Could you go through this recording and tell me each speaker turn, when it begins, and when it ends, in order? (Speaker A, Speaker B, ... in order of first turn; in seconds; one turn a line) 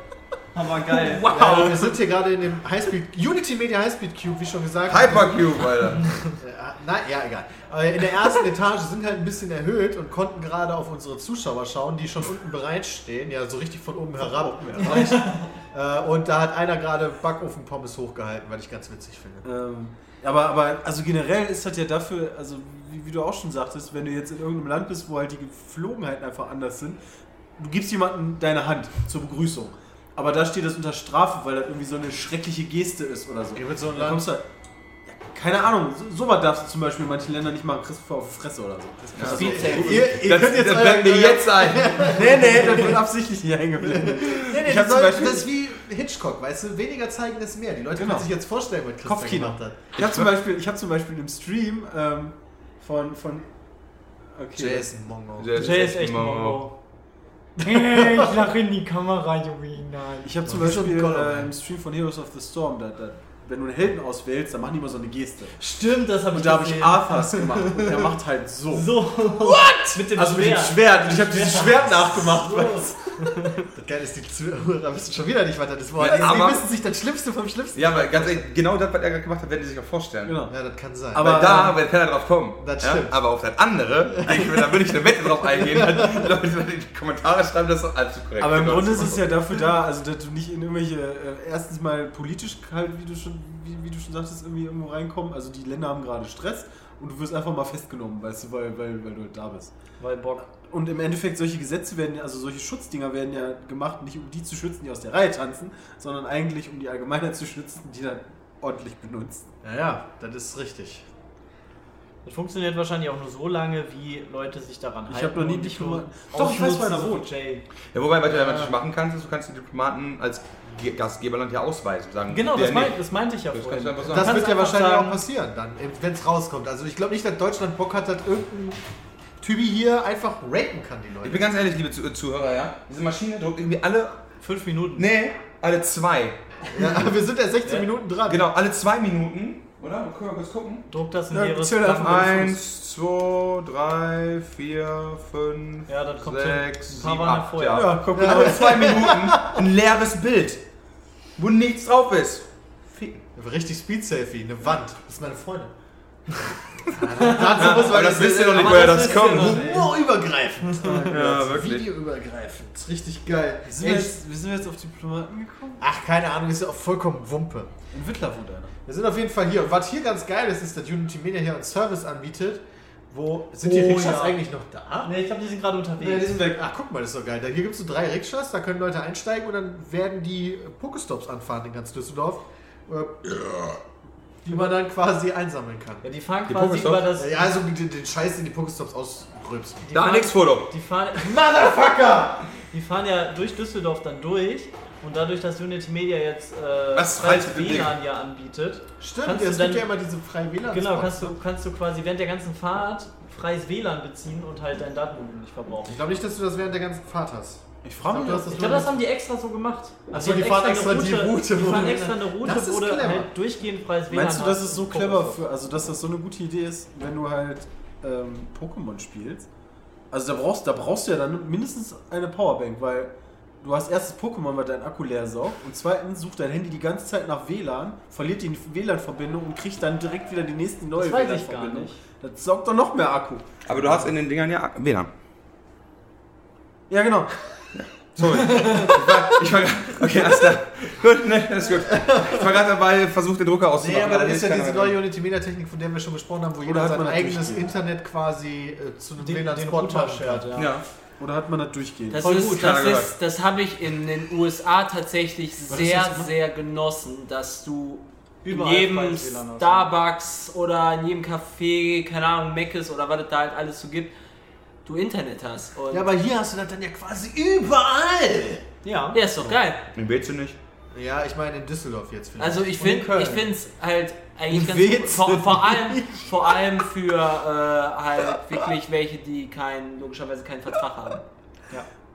Speaker A: 0.5-1.3
Speaker B: 0.9-2.0
Speaker C: 1.3-5.6
Speaker D: 4.9-6.2
Speaker C: 6.3-19.4
Speaker E: 14.2-15.3
Speaker A: 14.9-15.5
Speaker E: 19.4-27.0
Speaker E: 27.6-34.4
Speaker C: 33.5-34.3
Speaker E: 35.0-40.2
Speaker D: 39.1-42.2
Speaker C: 39.2-43.0
Speaker B: 39.3-39.8
Speaker E: 42.0-45.4
Speaker C: 43.8-49.9
Speaker D: 44.5-45.0
Speaker E: 48.0-48.3
Speaker E: 49.0-53.5
Speaker D: 50.0-50.2
Speaker E: 54.3-54.9
Speaker C: 54.6-55.7
Speaker D: 55.4-56.6
Speaker A: 55.6-56.7
Speaker A: 57.6-60.4
Speaker C: 57.9-58.3
Speaker E: 60.2-65.5
Speaker C: 60.5-61.5
Speaker A: 65.6-68.1
Speaker E: 66.3-68.9
Speaker A: 68.7-73.6
Speaker E: 70.0-73.3
Speaker C: 72.2-72.8
Speaker C: 73.7-78.5
Speaker D: 76.0-76.6
Speaker D: 77.7-80.3
Speaker E: 80.2-80.5
Speaker C: 80.5-81.8
Speaker E: 81.1-81.8
Speaker D: 81.2-89.4
Speaker C: 82.6-83.1
Speaker C: 84.1-86.3
Speaker E: 88.4-99.7
Speaker A: 100.0-100.5
Speaker E: 100.5-109.5
Speaker C: 109.6-111.1
Speaker A: 112.2-117.7
Speaker E: 115.1-117.3
Speaker D: 117.9-124.3
Speaker C: 118.3-118.8
Speaker A: 122.3-125.2
Speaker C: 124.0-128.8
Speaker C: 129.4-131.5
Speaker D: 131.2-134.2
Speaker A: 134.4-135.1
Speaker D: 134.9-136.4
Speaker C: 136.7-138.4
Speaker D: 138.3-140.9
Speaker A: 140.9-142.5
Speaker E: 141.3-142.6
Speaker D: 141.9-150.6
Speaker A: 145.9-148.0
Speaker E: 147.7-148.9
Speaker C: 148.1-149.6
Speaker D: 151.4-153.2
Speaker C: 153.3-155.7
Speaker C: 156.9-164.2
Speaker D: 157.2-159.9
Speaker A: 157.2-159.9
Speaker A: 160.6-161.1
Speaker D: 161.0-161.9
Speaker E: 163.7-165.8
Speaker C: 165.8-167.7
Speaker E: 167.9-168.7
Speaker C: 168.8-175.1
Speaker A: 173.6-174.4
Speaker A: 175.0-176.4
Speaker E: 176.0-176.6
Speaker C: 176.5-183.2
Speaker D: 183.2-183.8
Speaker C: 184.4-186.0
Speaker A: 186.0-187.4
Speaker D: 186.5-187.1
Speaker C: 187.2-189.9
Speaker A: 189.9-191.4
Speaker D: 189.9-190.7
Speaker C: 191.2-192.4
Speaker A: 192.6-199.8
Speaker D: 196.9-197.9
Speaker C: 199.0-201.3
Speaker A: 200.7-206.0
Speaker C: 205.8-208.9
Speaker E: 207.8-208.9
Speaker A: 208.5-215.4
Speaker C: 210.1-213.3
Speaker E: 214.1-219.4
Speaker E: 220.1-234.1
Speaker A: 230.9-232.0
Speaker D: 233.7-235.1
Speaker E: 236.9-237.6
Speaker D: 237.7-245.0
Speaker A: 238.6-238.8
Speaker C: 241.9-242.4
Speaker C: 243.8-250.5
Speaker E: 246.6-247.7
Speaker A: 249.2-250.7
Speaker D: 250.5-250.8
Speaker E: 251.2-252.3
Speaker B: 252.1-264.1
Speaker A: 252.2-252.9
Speaker D: 252.4-253.1
Speaker E: 255.7-256.3
Speaker A: 258.4-259.9
Speaker B: 264.9-266.1
Speaker C: 265.9-268.6
Speaker A: 268.8-269.2
Speaker B: 269.1-269.8
Speaker D: 269.9-270.6
Speaker C: 270.9-272.8
Speaker B: 272.4-281.2
Speaker A: 272.8-273.5
Speaker E: 274.5-276.6